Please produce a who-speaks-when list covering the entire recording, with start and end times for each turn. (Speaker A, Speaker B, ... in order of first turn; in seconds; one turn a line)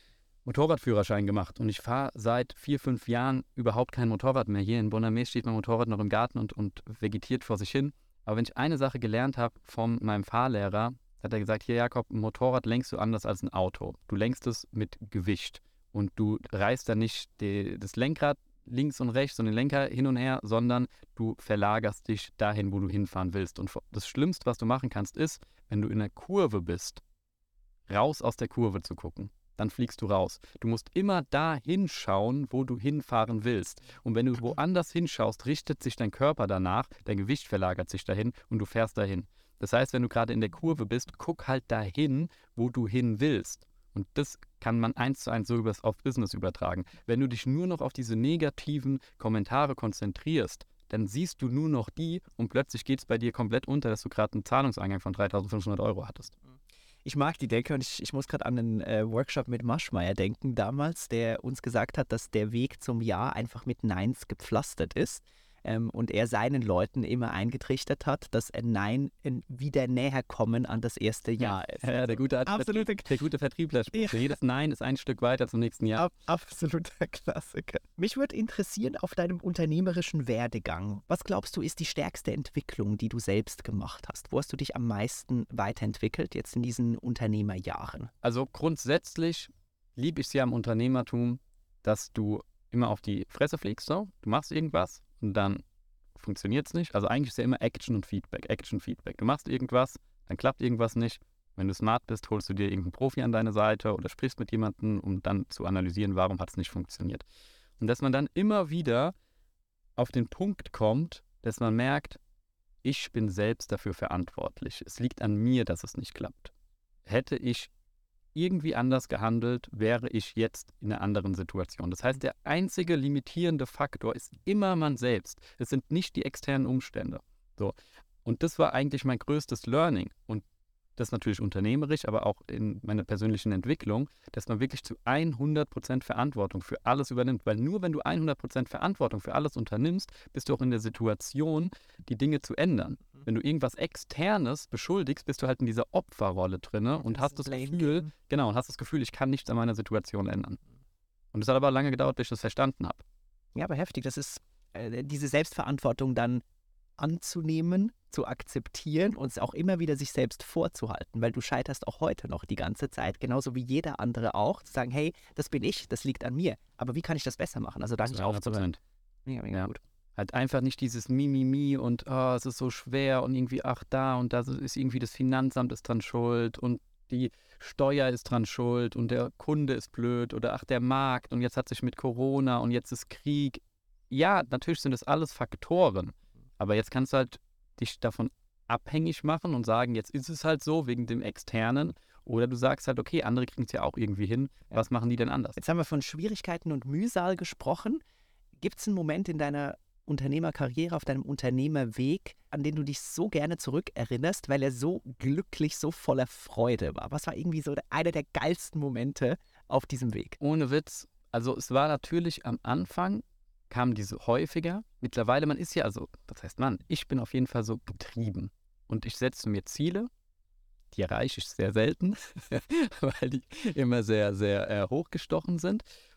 Speaker A: 0.4-27.0
Speaker A: 27.9-56.3
Speaker B: 57.0-71.8
Speaker A: 71.4-76.1
Speaker B: 72.5-73.2
Speaker B: 73.9-74.3
Speaker B: 76.0-88.1
Speaker A: 88.2-95.6
Speaker A: 96.2-107.2
Speaker A: 107.8-109.1
Speaker A: 110.0-112.2
Speaker A: 112.8-116.5
Speaker A: 117.0-117.7
Speaker A: 118.3-127.7
Speaker A: 128.2-130.4
Speaker A: 130.9-150.6
Speaker B: 147.0-148.1
Speaker A: 151.3-153.0
Speaker B: 153.5-156.4
Speaker B: 157.0-168.7
Speaker A: 168.1-168.8
Speaker B: 169.2-169.8
Speaker A: 169.5-195.6
Speaker B: 195.6-198.0
Speaker B: 198.6-210.4
Speaker A: 210.4-220.1
Speaker A: 220.9-225.8